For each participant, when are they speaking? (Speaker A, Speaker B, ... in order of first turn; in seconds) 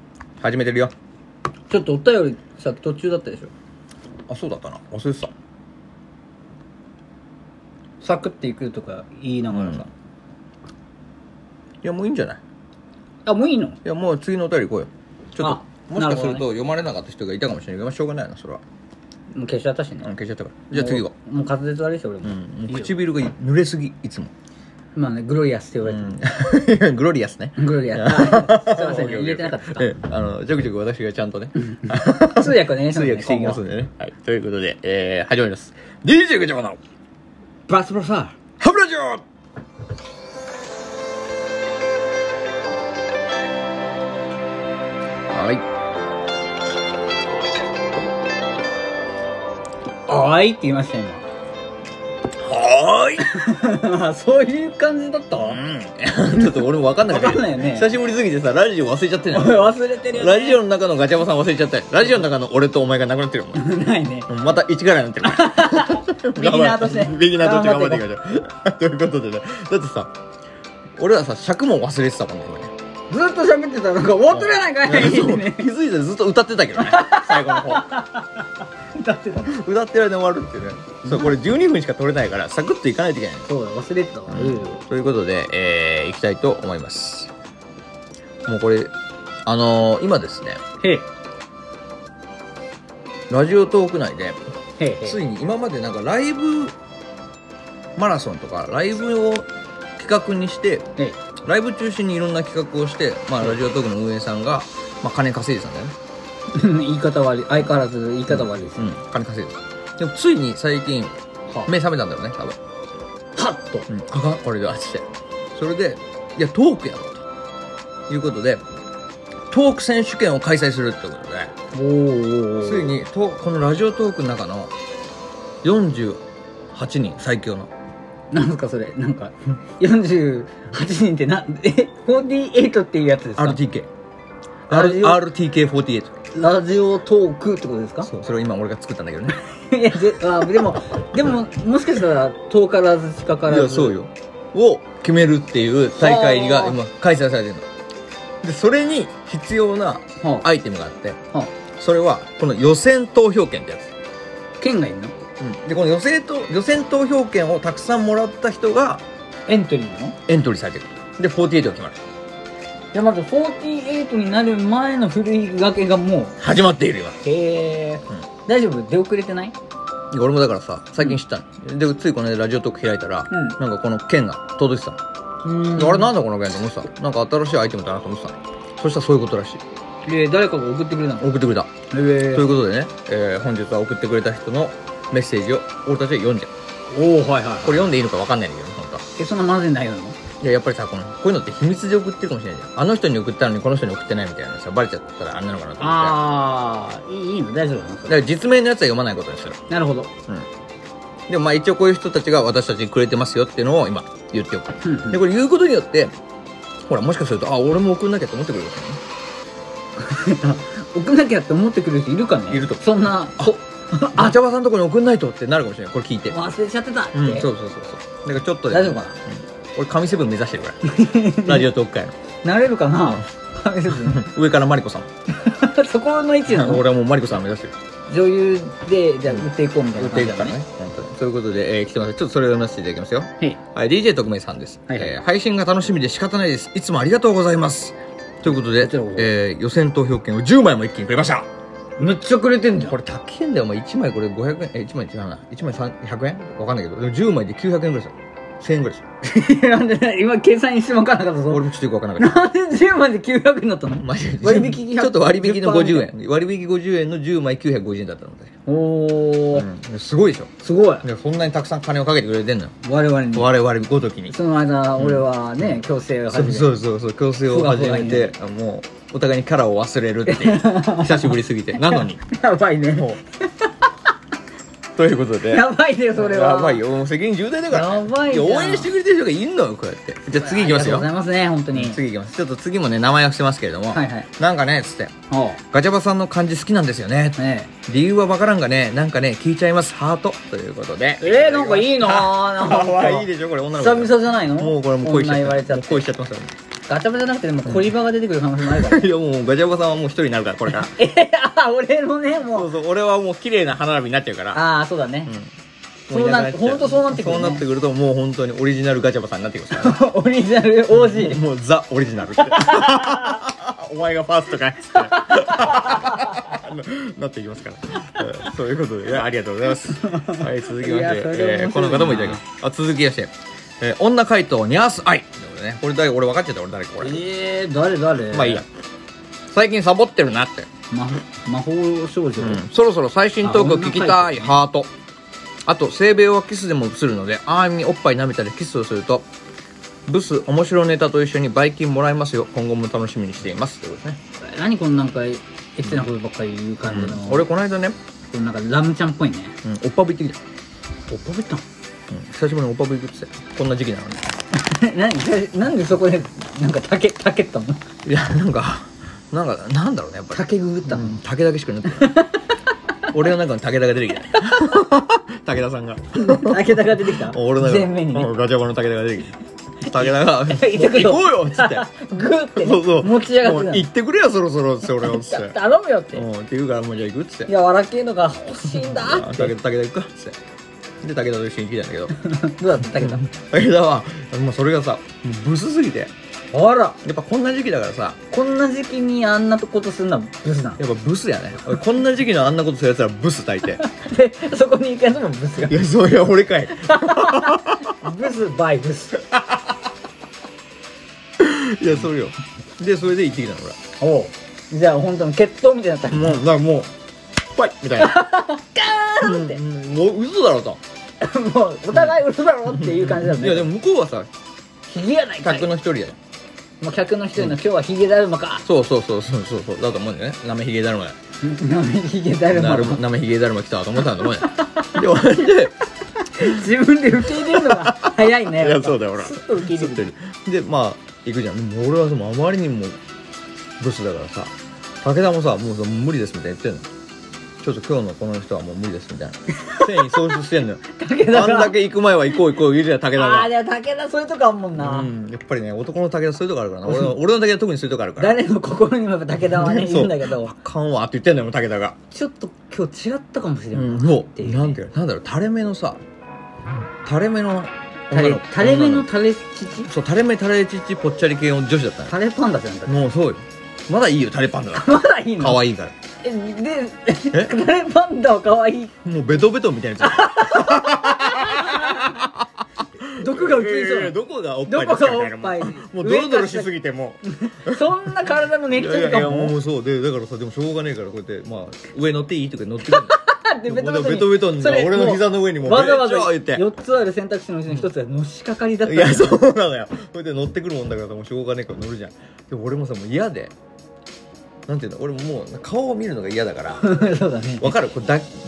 Speaker A: 0.4-0.9, 4.3-5.3, 9.5-9.8, 11.8-12.4, 13.8-18.6, 20.0-21.1, 22.2-24.3, 25.8-36.8, 37.7-39.2, 45.3-45.6, 52.4-53.3, 55.4-63.6, 64.3-70.1, 71.0-72.7, 74.3-77.9, 79.4-83.5, 84.3-87.3, 88.5-88.9, 89.5-90.6, 93.3-94.4, 95.0-96.7, 98.0-100.9, 101.4-105.9, 108.3-111.1, 111.7-112.6, 113.9-117.2, 118.1-118.6, 119.5-121.5, 122.6-124.7, 125.6-126.2, 126.7-127.7, 133.4-133.9, 134.7-136.1, 138.0-139.4, 143.4-147.7, 148.4-151.2, 151.8-153.9, 155.4-159.0, 160.3-162.0, 166.4-167.2, 170.1-175.0, 175.7-179.6, 181.2-186.5, 187.6-189.0, 190.4-196.2, 198.1-199.6, 201.3-206.1, 206.9-209.0, 212.5-213.6, 214.1-216.4, 217.1-220.8, 221.3-222.1, 223.9-225.1, 226.5-227.7, 229.3-241.4, 242.8-249.0, 251.5-252.4, 254.0-258.5, 259.5-260.5, 261.0-262.8, 263.3-264.4, 265.0-265.8, 266.3-272.3, 272.9-273.2, 274.9-281.1, 281.7-285.1, 285.7-296.5, 297.6-297.9, 298.7-300.9, 302.5-304.6, 305.2-305.5, 306.1-310.0, 310.9-327.2, 328.3-328.6, 329.5-330.7, 332.4-334.9, 335.7-339.3, 340.1-344.2, 346.8-348.0, 349.6-350.4, 352.1-354.2, 358.1-362.1, 363.1-371.9, 372.6-375.6, 376.1-377.5, 378.7-380.4, 381.0-382.1, 382.9-386.1, 387.0-388.2, 390.8-393.8, 395.6-397.9, 399.3-399.7, 401.4-403.8, 406.1-406.9, 407.4-408.2, 409.2-410.8, 412.7-414.3, 415.4-416.2, 418.6-421.1, 422.5-425.8, 427.2-433.0, 433.8-436.9, 437.6-443.5, 444.8-448.4, 449.5-451.9, 453.7-456.0, 457.1-459.1, 459.9-462.1, 462.9-465.9, 469.0-472.3, 473.1-477.9, 478.7-486.6, 488.9-493.5, 494.7-497.0, 497.6-498.3
Speaker B: 1.7-3.5, 8.0-9.9, 13.2-13.8, 15.4-16.4, 19.3-20.1, 20.7-22.9, 25.0-26.2, 27.6-29.9, 31.9-33.6, 37.9-38.2, 50.1-51.2, 53.2-55.6, 57.0-57.9, 59.3-60.6, 63.5-64.3, 65.2-68.0, 73.1-75.7, 76.8-79.6, 81.1-81.3, 83.5-84.8, 90.8-91.0, 94.8-95.2, 106.5-108.8, 113.3-113.9, 121.7-122.9, 128.3-133.6, 134.7-135.2, 136.3-138.1, 139.4-143.9, 146.0-146.8, 150.2-150.5, 154.6-155.1, 159.5-160.2, 162.9-166.3, 167.2-169.5, 173.3-173.6, 175.4-176.1, 180.1-181.3, 181.9-182.5, 186.9-187.9, 189.2-190.2, 195.8-198.2, 199.7-200.1, 204.8-205.2, 210.0-214.3, 216.3-217.5, 218.7-219.2, 220.8-221.7, 222.4-224.3, 225.3-226.8, 228.1-230.6, 238.5-239.3, 242.0-242.9, 249.2-251.7, 252.2-256.1, 258.6-259.7, 260.6-261.0, 262.8-263.5, 264.3-266.7, 267.5-268.3, 270.3-273.7, 275.5-276.8, 277.7-278.9, 280.3-282.0, 283.9-284.3, 285.3-285.6, 287.4-287.7, 291.2-296.1, 296.9-299.0, 300.7-302.7, 304.5-305.3, 306.1-307.6, 309.7-311.4, 312.4-313.4, 314.9-316.4, 320.1-322.4, 327.0-328.6, 330.9-332.6, 333.4-334.5, 344.4-347.5, 348.3-349.6, 351.1-351.6, 354.5-357.8, 360.3-361.1, 361.9-362.5, 364.4-364.8, 366.2-368.3, 369.9-373.9, 374.9-376.2, 377.5-379.5, 382.2-383.2, 386.5-387.0, 388.3-390.8, 393.8-395.8, 396.8-399.2, 404.0-406.4, 408.0-409.6, 411.2-413.7, 414.9-415.7, 416.8-418.6, 421.4-423.0, 424.3-424.9, 426.2-430.1, 439.6-440.2, 440.9-441.8, 443.1-445.1, 446.8-447.1, 448.2-450.5, 452.1-454.8, 458.1-459.9, 462.1-463.0, 464.8-465.6, 466.2-468.9, 470.0-472.2, 473.1-474.1, 474.6-476.7, 477.2-479.6, 482.8-489.3, 496.8-497.7